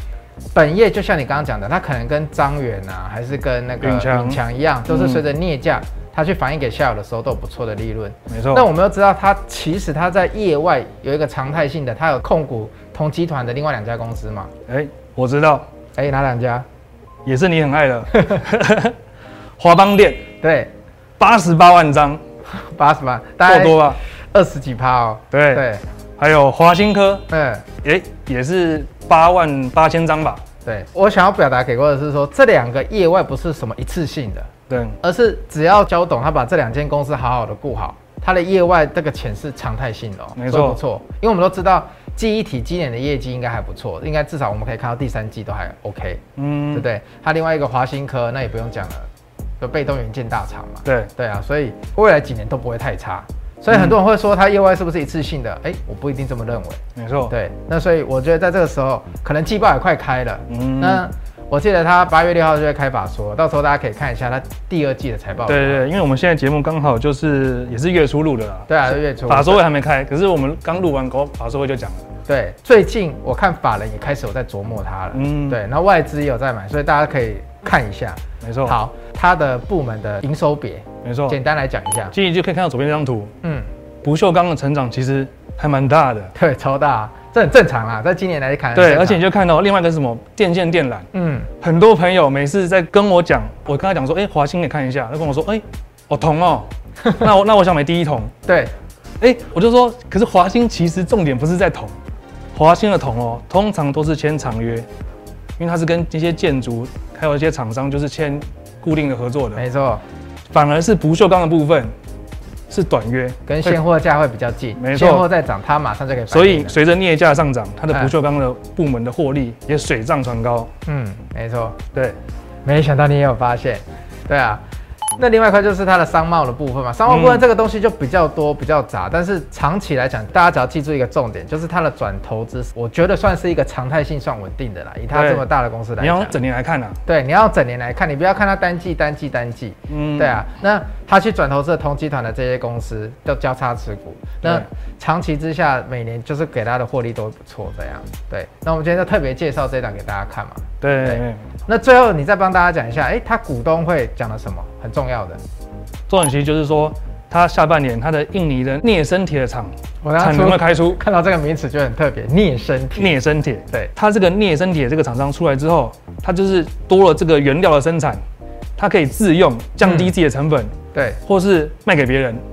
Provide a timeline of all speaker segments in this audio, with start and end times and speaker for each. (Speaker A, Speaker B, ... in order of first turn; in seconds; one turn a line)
Speaker A: 0.5-14.5
Speaker B: 3.8-5.2
Speaker B: 8.3-8.7
Speaker B: 14.7-15.7
Speaker A: 16.0-16.6
Speaker B: 17.2-19.0
Speaker A: 18.1-18.4
Speaker B: 19.6-20.2
Speaker A: 20.4-20.7
Speaker B: 21.2-22.2
Speaker A: 22.5-25.8
Speaker B: 23.4-24.0
Speaker B: 25.3-25.6
Speaker B: 26.2-27.2
Speaker A: 27.3-27.6
Speaker B: 27.8-30.4
Speaker A: 30.6-34.5
Speaker B: 34.7-35.0
Speaker A: 35.0-46.2
Speaker B: 40.4-40.8
Speaker B: 46.4-46.9
Speaker A: 46.7-49.1
Speaker A: 49.6-65.8
Speaker B: 53.7-54.0
Speaker B: 57.0-57.3
Speaker B: 60.5-61.0
Speaker B: 65.5-68.7
Speaker A: 68.7-69.6
Speaker B: 69.3-72.0
Speaker A: 72.3-82.1
Speaker B: 75.1-75.6
Speaker B: 78.4-78.8
Speaker B: 81.0-81.4
Speaker B: 82.1-83.3
Speaker A: 83.4-83.7
Speaker B: 84.0-86.3
Speaker A: 86.3-89.2
Speaker B: 88.8-91.1
Speaker A: 91.1-91.5
Speaker B: 91.6-98.3
Speaker A: 98.5-98.7
Speaker B: 99.2-101.9
Speaker B: 102.5-104.9
Speaker B: 105.6-109.6
Speaker A: 109.6-110.0
Speaker B: 110.5-111.9
Speaker B: 112.7-113.8
Speaker A: 113.5-116.8
Speaker B: 114.8-115.2
Speaker B: 116.3-120.7
Speaker A: 120.9-121.8
Speaker A: 122.7-124.6
Speaker A: 125.2-136.3
Speaker B: 127.1-127.4
Speaker B: 135.1-135.4
Speaker B: 136.0-137.0
Speaker A: 137.1-155.4
Speaker B: 139.9-140.4
Speaker B: 150.8-151.4
Speaker B: 156.1-161.0
Speaker A: 160.0-163.2
Speaker B: 163.0-168.2
Speaker B: 168.8-170.7
Speaker A: 169.8-170.1
Speaker A: 170.9-171.2
Speaker B: 171.2-172.4